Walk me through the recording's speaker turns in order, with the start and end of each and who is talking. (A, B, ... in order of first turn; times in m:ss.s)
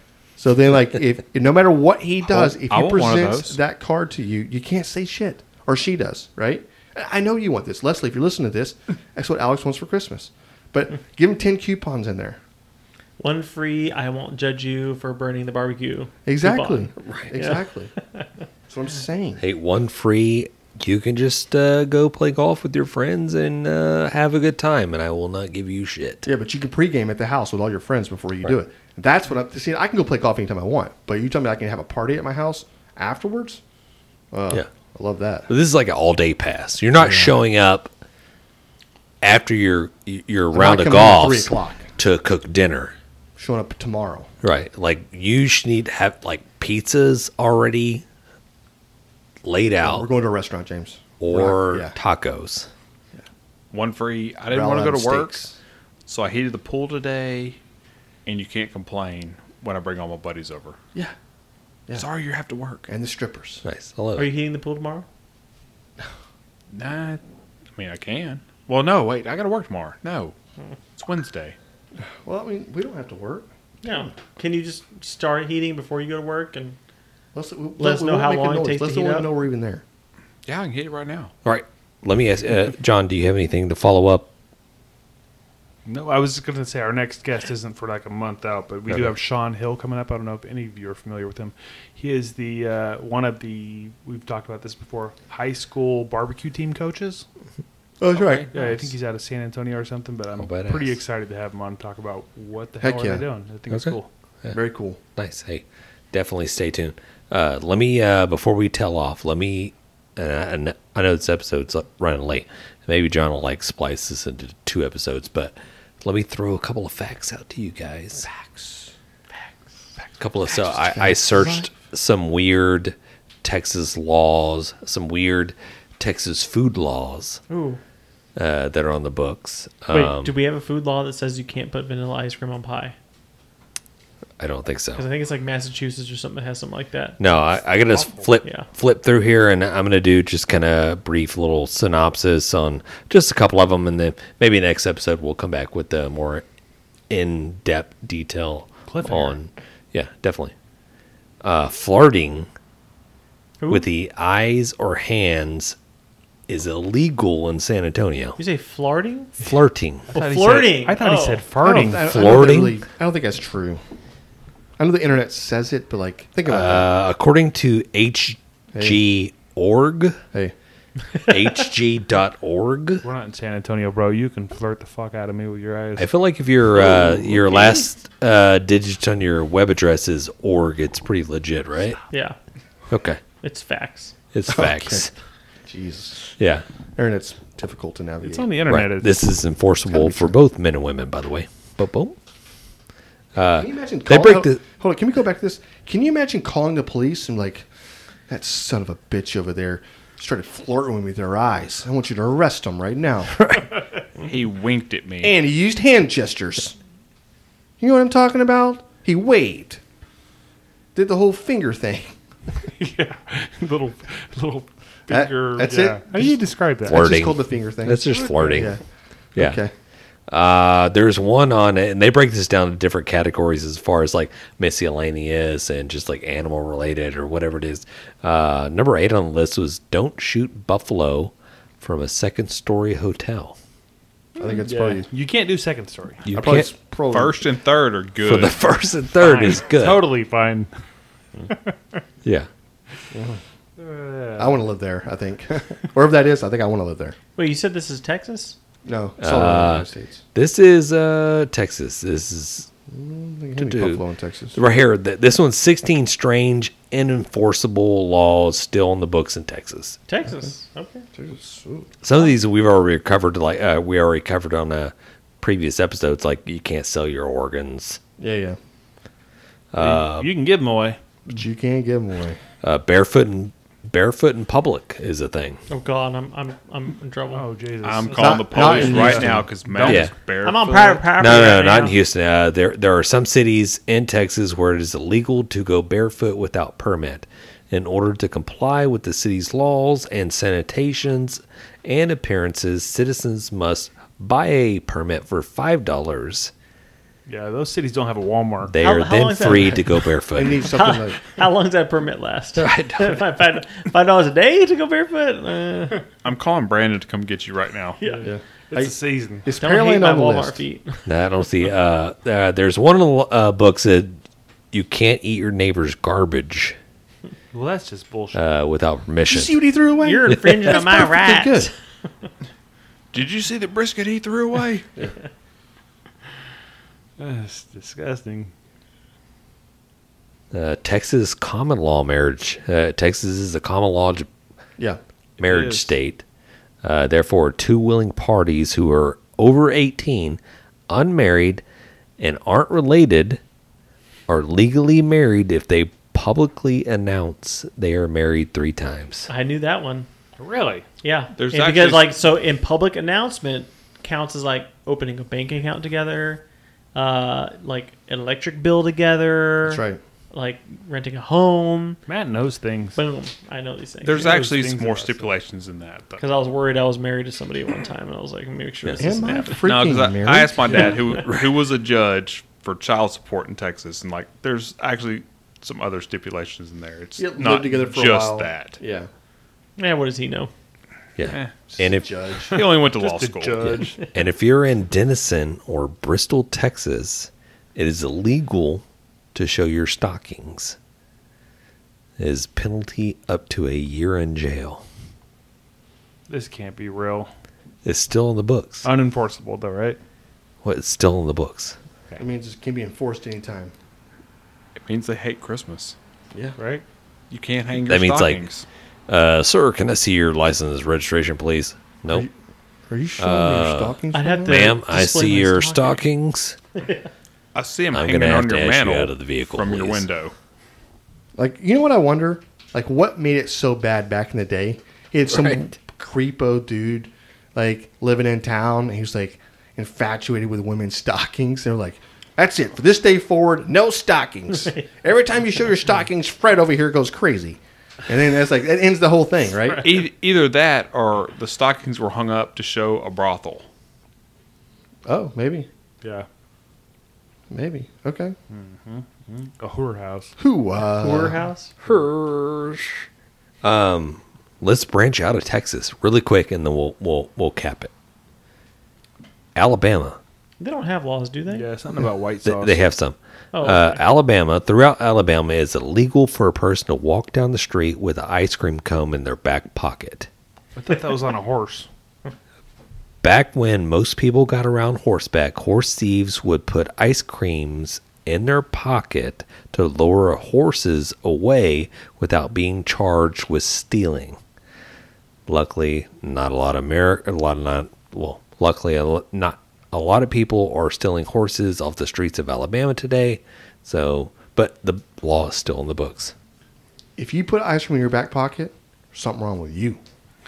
0:00.4-0:12.4 A
0:02.2-0:03.6 B
0:13.2-0:18.3 C
0:16.2-0:17.9 A
0:18.7-0:19.4 A
0:19.4-0:26.3 D
0:26.2-0:33.6 A
0:34.3-0:35.5 A
0:35.5-0:37.9 D
0:37.0-0:37.4 A
0:39.2-0:42.9 D
0:40.5-0:41.9 A
0:43.4-0:44.3 A
0:44.4-0:48.0 D
0:49.4-0:50.1 D
0:49.8-0:51.9 A
0:51.2-0:52.7 D
0:53.7-0:55.4 B
0:54.5-0:55.5 A
0:56.1-0:57.6 B
0:58.2-1:00.8 B
1:01.9-1:02.9 B
1:02.9-1:03.6 A
1:03.6-1:04.3 D
1:04.2-1:05.0 C
1:06.7-1:07.2 B
1:07.8-1:10.3 B
1:11.0-1:11.6 B
1:12.1-1:14.1 A
1:13.8-1:16.8 C
1:17.3-1:19.8 A
1:17.8-1:19.3 C
1:20.4-1:21.3 B
1:21.4-1:24.3 D
1:25.8-1:37.2 E
1:28.9-1:29.2 D
1:38.0-1:38.5 A
1:38.1-1:38.5 B
1:38.5-1:44.1 E
1:40.4-1:41.0 D
1:42.8-1:43.2 A
1:43.7-1:44.6 D
1:44.5-1:45.0 A
1:45.2-1:58.3 D
1:58.2-1:58.9 A
2:00.2-2:07.4 D
2:00.6-2:01.7 A
2:07.5-2:07.8 C
2:08.4-2:10.3 D
2:09.9-2:12.9 C
2:14.4-2:15.0 D
2:14.9-2:17.2 C
2:17.2-2:26.4 D
2:27.1-2:30.5 D
2:28.9-2:29.4 E
2:31.4-2:32.5 D
2:33.6-2:33.9 C
2:33.7-2:35.8 D
2:36.5-2:38.4 D
2:38.4-2:39.4 C
2:39.4-2:40.1 D
2:40.1-2:41.5 C
2:40.1-2:42.6 E
2:41.6-2:43.8 A
2:41.8-2:42.8 D
2:44.8-2:46.9 A
2:46.5-2:50.2 D
2:48.7-2:49.0 A
2:51.3-2:53.0 D
2:53.0-2:56.1 E
2:56.0-3:02.0 D
3:02.1-3:02.4 C
3:02.9-3:03.2 D
3:03.4-3:04.1 C
3:04.3-3:05.1 D
3:04.5-3:05.0 A
3:05.7-3:06.3 A
3:06.4-3:06.6 D
3:07.0-3:08.7 A
3:08.2-3:09.3 E
3:08.6-3:12.2 D
3:09.9-3:10.4 A
3:13.3-3:14.6 D
3:13.6-3:17.7 A
3:18.3-3:23.5 A
3:23.4-3:23.8 D
3:24.2-3:25.4 B
3:25.2-3:26.8 A
3:27.8-3:29.8 A
3:30.9-3:32.1 A
3:32.7-3:37.1 E
3:35.1-3:38.8 A
3:36.8-3:38.7 D
3:38.1-3:38.7 E
3:39.4-3:39.7 A
3:40.3-3:53.6 D
3:54.4-3:55.1 A
3:54.4-3:56.2 E
3:56.2-3:56.7 D
3:56.3-3:57.4 A
3:57.1-3:58.6 B
3:58.2-4:00.0 D
3:59.2-4:00.7 E
4:01.5-4:02.0 E
4:02.2-4:02.5 D
4:03.1-4:03.4 A
4:03.8-4:04.6 E
4:04.4-4:07.2 A
4:07.4-4:08.6 C
4:08.8-4:10.2 A
4:09.2-4:12.7 D
4:12.9-4:14.6 A
4:13.6-4:20.0 D
4:20.1-4:21.0 C
4:21.1-4:21.9 A
4:22.0-4:28.0 D
4:28.2-4:28.6 A
4:29.7-4:30.3 D
4:29.8-4:31.0 E
4:31.3-4:32.4 A
4:32.6-4:35.6 D
4:35.7-4:37.4 C
4:37.3-4:40.1 E
4:37.8-4:41.4 B
4:38.1-4:39.5 A
4:39.8-4:40.1 D
4:40.4-4:42.0 C
4:41.2-4:56.5 D
4:57.3-4:58.8 E
4:58.7-5:00.7 D
4:58.8-4:59.9 C
5:00.3-5:01.2 A
5:00.7-5:06.0 C
5:02.6-5:03.3 D
5:06.2-5:08.0 B
5:08.0-5:08.3 C
5:08.0-5:09.5 E
5:08.2-5:10.6 A
5:09.6-5:11.0 C
5:11.0-5:14.2 D
5:14.7-5:16.8 D
5:17.5-5:18.4 E
5:18.3-5:19.5 D
5:19.3-5:21.7 A
5:20.0-5:21.7 C
5:23.1-5:24.9 B
5:27.2-5:28.5 E
5:30.5-5:34.3 D
5:35.4-5:35.9 E
5:35.4-5:36.2 D
5:36.8-5:41.6 D
5:42.2-5:43.4 D
5:44.3-5:49.3 D
5:49.3-5:50.1 C
5:50.4-5:50.8 E
5:51.0-5:56.4 C
5:51.4-5:52.2 B
5:56.9-6:02.0 C
5:59.6-6:00.0 A
6:02.1-6:03.0 E
6:02.9-6:04.3 C
6:04.0-6:06.2 B
6:04.1-6:05.3 E
6:06.2-6:09.6 C
6:09.0-6:11.2 A
6:09.6-6:18.8 B
6:10.7-6:11.0 E
6:17.2-6:19.1 A
6:19.8-6:20.5 C
6:21.2-6:22.2 D
6:21.3-6:21.5 B
6:21.7-6:22.6 A
6:22.5-6:24.0 E
6:22.5-6:23.7 B
6:23.6-6:30.8 D
6:32.2-6:34.8 D
6:36.3-6:37.3 E
6:37.8-6:38.9 D
6:38.8-6:40.0 E
6:40.6-6:41.8 D
6:42.2-6:43.7 A
6:44.8-6:46.0 B
6:46.6-6:46.8 E
6:47.3-6:48.6 B
6:47.8-6:48.5 D
6:49.1-6:52.3 D
6:52.9-6:54.7 A
6:53.2-6:56.6 D
6:54.1-6:56.0 C
6:56.7-6:57.1 C
6:57.5-7:00.3 B
6:57.9-7:00.1 D
7:01.4-7:20.0 A
7:05.3-7:05.6 D
7:19.8-7:23.7 B
7:25.0-7:25.7 A
7:27.5-7:28.4 A
7:28.5-7:30.4 E
7:30.4-7:31.3 A
7:30.9-7:31.7 C
7:31.8-7:33.0 D
7:33.6-7:37.9 D
7:39.5-7:40.2 D
7:40.6-7:41.7 C
7:41.5-7:42.8 E
7:42.4-7:50.3 D
7:43.5-7:44.0 C
7:50.8-7:51.9 E
7:53.2-8:04.4 D
8:05.5-8:16.3 D
8:17.2-8:20.0 A